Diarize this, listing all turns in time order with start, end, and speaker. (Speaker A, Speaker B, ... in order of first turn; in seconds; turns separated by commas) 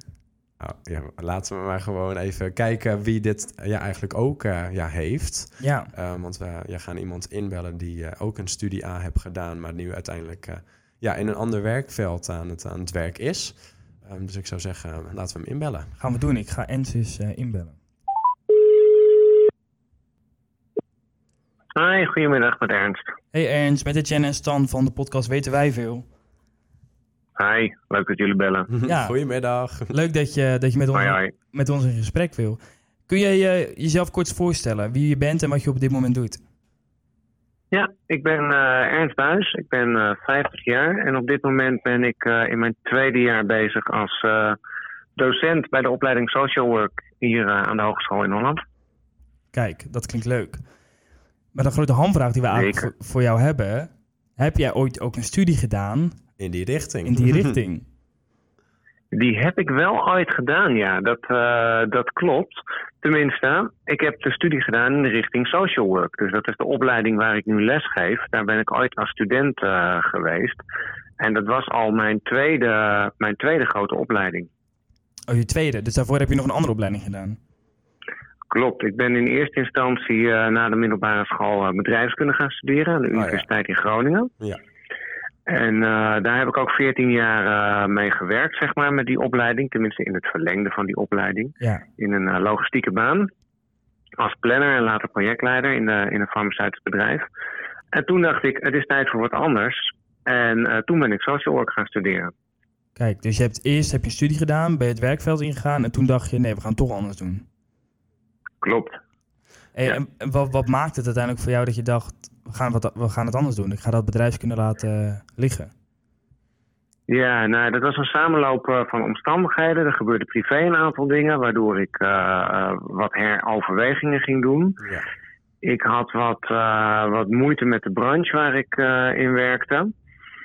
Speaker A: 0.6-15.9, Speaker B: 5.6-5.9, Speaker B: 16.0-17.8, Speaker C: 21.7-23.0, Speaker B: 23.3-26.1, Speaker C: 27.4-28.7, Speaker A: 28.7-29.9, Speaker B: 28.8-29.2, Speaker B: 29.9-36.4, Speaker C: 30.9-31.3, Speaker C: 37.7-44.6, Speaker C: 45.1-48.6, Speaker B: 49.5-50.6, Speaker B: 51.5-56.2, Speaker C: 52.5-52.9, Speaker A: 56.4-57.5, Speaker B: 57.0-57.8, Speaker C: 59.1-70.6, Speaker C: 71.2-74.5, Speaker B: 75.3-77.4, Speaker C: 78.5-84.3, Speaker A: 83.1-83.5, Speaker C: 85.5-93.3, Speaker B: 91.6-91.8, Speaker C: 94.2-97.2, Speaker C: 97.9-102.3, Speaker B: 103.0-107.4, Speaker C: 108.6-109.0, Speaker B: 109.8-115.7, Speaker C: 117.1-124.8, Speaker C: 125.6-129.9